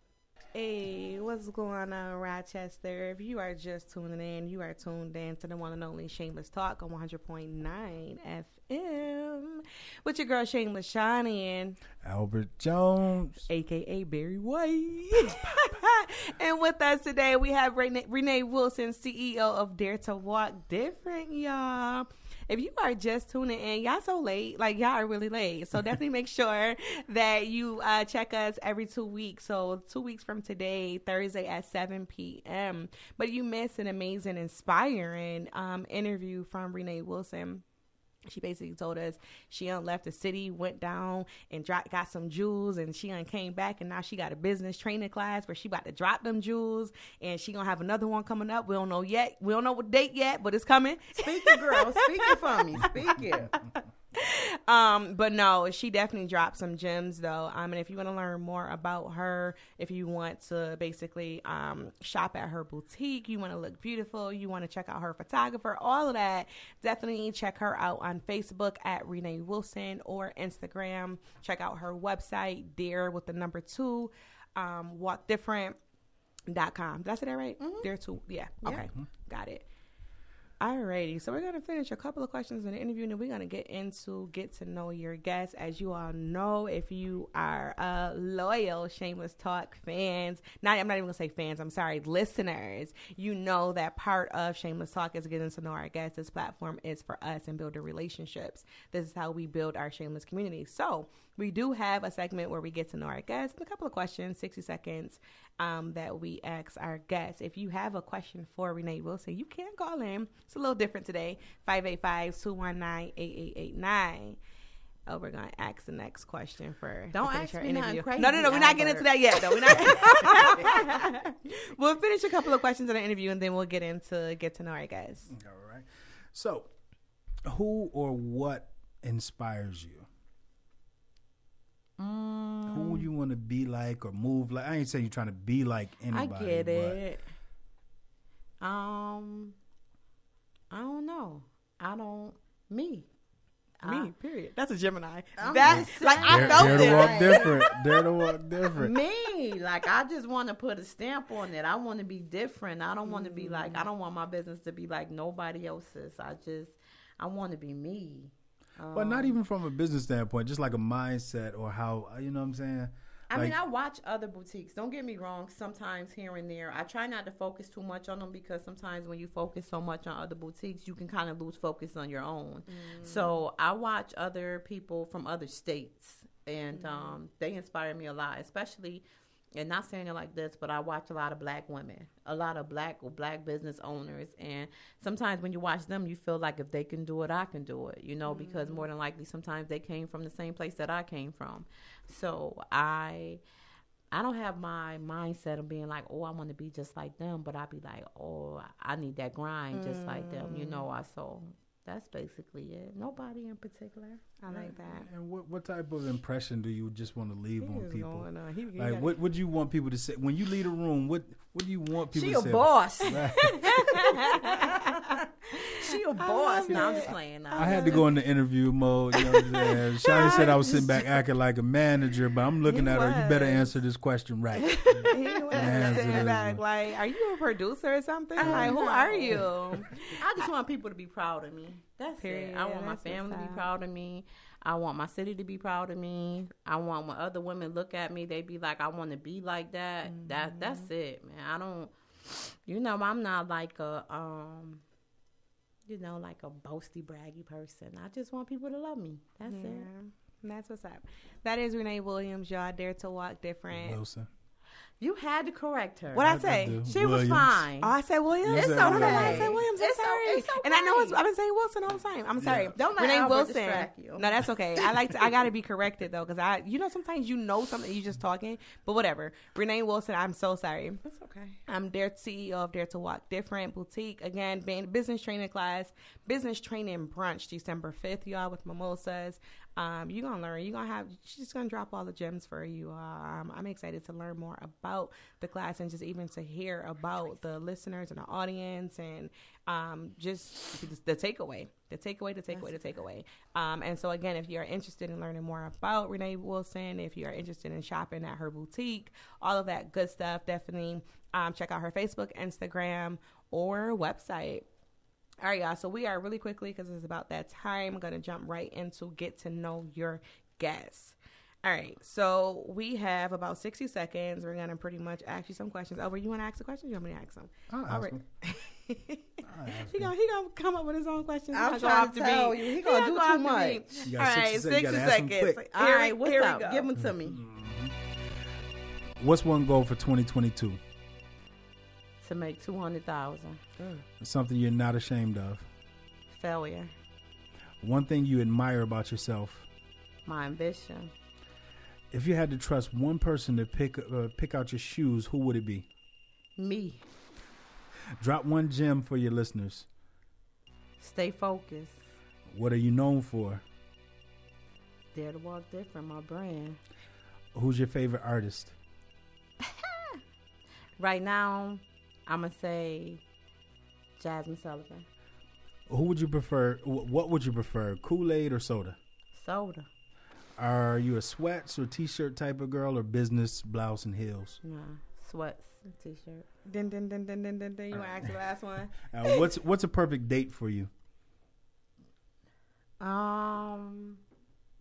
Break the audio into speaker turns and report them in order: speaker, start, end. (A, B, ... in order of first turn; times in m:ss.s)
0:00.5-0:11.8 A
0:12.0-0:13.5 B
0:13.5-0:37.6 A
0:38.3-0:52.9 A
0:51.2-0:53.6 C
0:54.1-1:15.8 A
1:16.5-1:19.6 A
1:17.6-1:17.9 C
1:18.6-1:18.9 C
1:20.6-1:54.4 A
1:55.1-2:05.3 A
1:57.1-2:01.2 C
2:05.3-2:06.7 B
2:07.5-2:10.1 B
2:12.0-2:13.1 C
2:12.7-2:17.0 B
2:16.1-2:17.2 C
2:18.6-2:19.6 C
2:20.7-2:23.1 C
2:23.8-2:24.1 C
2:23.8-2:28.0 A
2:25.4-2:27.6 C
2:25.6-2:29.0 B
2:28.7-2:39.4 C
2:33.0-2:33.8 A
2:38.9-2:43.6 B
2:43.3-3:13.4 C
2:52.7-2:53.4 A
2:56.7-2:57.2 A
3:08.3-3:08.8 A
3:14.1-3:24.8 C
3:19.7-3:20.9 A
3:24.4-3:25.1 A
3:24.8-3:34.1 B
3:27.6-3:29.1 A
3:32.1-3:38.1 C
3:33.3-3:38.0 A
3:37.6-3:46.6 B
3:39.4-3:40.9 A
3:40.1-3:41.0 C
3:42.7-3:43.8 A
3:44.8-3:46.3 C
3:44.8-3:50.5 A
3:48.4-3:49.5 C
3:48.4-3:48.8 B
3:50.1-4:04.8 C
3:52.2-3:53.7 A
4:00.0-4:00.9 A
4:05.9-4:09.9 C
4:09.4-4:14.0 A
4:13.7-4:14.3 B
4:15.0-4:17.9 C
4:16.1-4:16.8 A
4:16.2-4:17.7 B
4:17.8-4:31.0 A
4:18.4-4:19.6 B
4:18.5-4:21.2 C
4:22.4-4:22.7 B
4:22.7-4:25.3 C
4:31.0-4:31.6 C
4:31.7-5:04.6 A
4:52.5-4:53.0 C
5:05.4-5:26.9 A
5:17.7-5:18.2 B
5:19.4-5:20.1 B
5:21.5-5:24.1 C
5:24.1-5:25.6 B
5:25.6-5:27.4 C
5:27.0-5:28.0 B
5:29.2-5:30.8 B
5:32.2-5:34.0 C
5:34.2-5:35.7 B
5:36.3-5:36.9 C
5:37.8-5:39.7 B
5:40.3-5:41.1 C
5:42.1-5:45.9 B
5:46.6-5:47.0 C
5:48.2-5:49.9 B
5:51.0-5:52.1 C
5:52.5-5:53.6 B
5:55.1-5:56.8 C
5:57.5-5:58.8 B
5:59.6-6:00.2 C
6:01.0-6:03.2 C
6:04.2-6:05.1 C
6:05.9-6:09.0 B
6:09.3-6:09.9 C
6:10.6-6:14.6 B
6:14.6-6:16.5 C
6:16.7-6:19.4 A
6:17.9-6:18.3 B
6:19.0-6:20.9 B
6:23.0-6:24.2 C